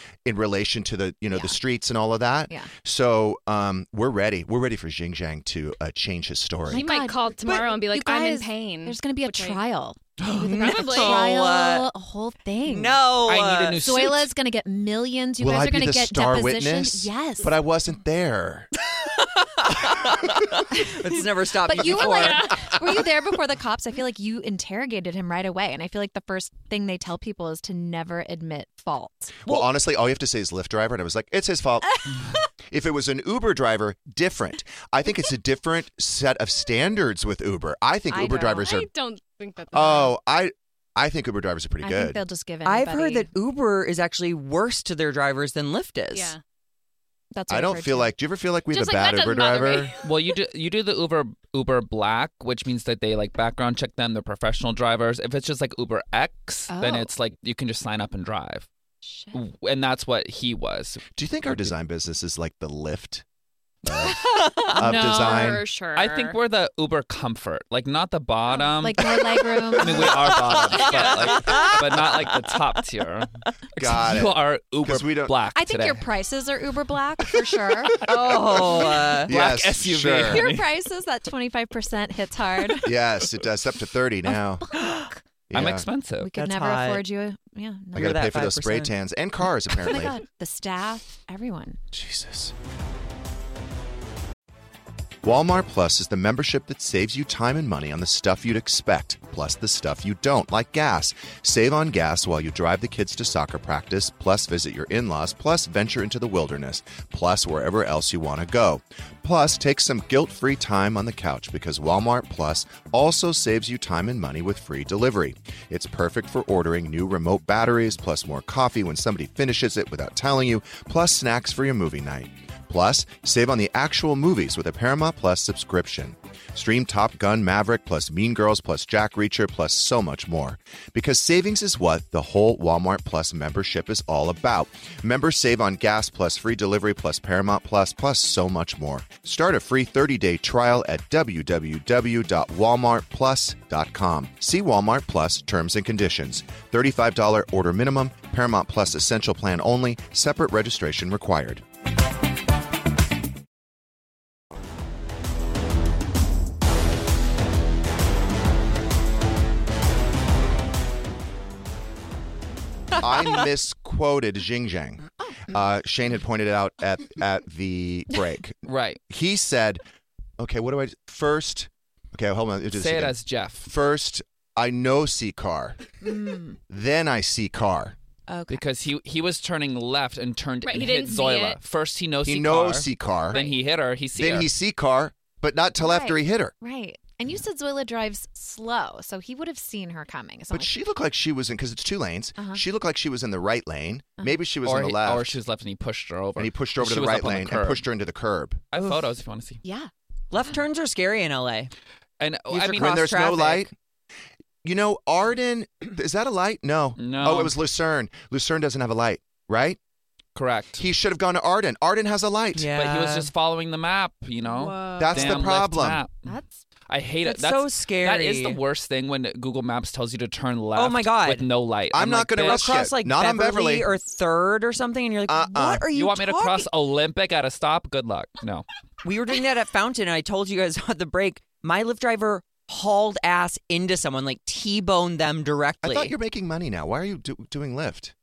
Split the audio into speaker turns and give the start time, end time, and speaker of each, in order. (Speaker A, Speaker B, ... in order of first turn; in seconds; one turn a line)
Speaker A: 0.2-6.8
Speaker B: 1.3-1.6
Speaker C: 6.7-9.6
Speaker B: 6.7-13.0
Speaker D: 10.2-10.5
Speaker E: 10.3-11.9
Speaker C: 10.4-11.3
Speaker E: 12.6-13.9
Speaker D: 13.2-14.3
Speaker B: 13.8-17.6
Speaker A: 15.4-18.7
Speaker E: 19.0-23.0
Speaker B: 20.7-29.3
Speaker C: 21.9-22.7
Speaker A: 29.4-32.1
Speaker A: 32.7-38.9
Speaker B: 38.1-38.7
Speaker C: 38.6-40.1
Speaker A: 39.7-42.2
Speaker B: 41.8-43.3
Speaker E: 42.6-46.3
Speaker C: 46.1-46.4
Speaker B: 47.3-48.1
Speaker A: 47.5-49.9
Speaker C: 48.7-50.0
Speaker D: 50.0-58.7
Speaker B: 56.7-57.1
Speaker B: 59.0-59.4
Speaker D: 59.3-61.7
Speaker A: 61.1-63.2
Speaker A: 63.8-64.2
Speaker E: 64.2-64.8
Speaker C: 64.7-66.4
Speaker B: 64.7-65.0
Speaker A: 64.7-65.7
Speaker D: 65.9-76.0
Speaker B: 68.8-70.2
Speaker E: 69.7-72.5
Speaker A: 73.8-75.3
Speaker B: 75.5-78.0
Speaker E: 78.0-79.3
Speaker A: 78.3-78.7
Speaker D: 78.3-80.7
Speaker A: 79.2-80.5
Speaker B: 80.2-83.0
Speaker A: 82.8-84.7
Speaker B: 84.6-85.2
Speaker A: 85.5-85.9
Speaker D: 85.5-86.3
Speaker B: 86.2-88.2
Speaker E: 86.3-87.0
Speaker E: 87.9-88.9
Speaker A: 87.9-90.1
Speaker B: 89.8-91.8
Speaker A: 91.9-92.5
Speaker A: 95.2-151.6
Speaker A: 163.0-169.8
Speaker D: 168.7-169.0
Speaker A: 170.4-175.8
Speaker D: 172.7-173.7
Speaker B: 176.0-176.6
Speaker A: 176.7-177.9
Speaker B: 178.3-178.6
Speaker D: 178.5-184.5
Speaker C: 180.6-181.6
Speaker A: 182.2-183.4
Speaker A: 184.1-186.5
Speaker B: 185.8-190.7
Speaker A: 190.5-195.4
Speaker B: 192.4-192.6
Speaker D: 194.6-197.8
Speaker A: 196.4-198.6
Speaker D: 198.7-199.6
Speaker E: 198.8-199.0
Speaker B: 199.6-199.9
Speaker E: 200.3-201.7
Speaker D: 202.2-203.1
Speaker E: 202.5-203.7
Speaker A: 202.7-203.7
Speaker A: 204.6-209.8
Speaker D: 207.0-207.6
Speaker D: 210.3-210.8
Speaker A: 210.8-212.7
Speaker E: 212.5-213.3
Speaker D: 212.7-216.3
Speaker B: 214.4-215.4
Speaker A: 215.0-216.0
Speaker B: 216.2-216.5
Speaker D: 216.9-222.7
Speaker E: 217.2-218.6
Speaker E: 220.7-221.4
Speaker A: 221.9-223.9
Speaker E: 222.4-226.7
Speaker A: 225.2-225.9
Speaker D: 225.9-228.7
Speaker E: 229.0-236.1
Speaker A: 235.8-238.1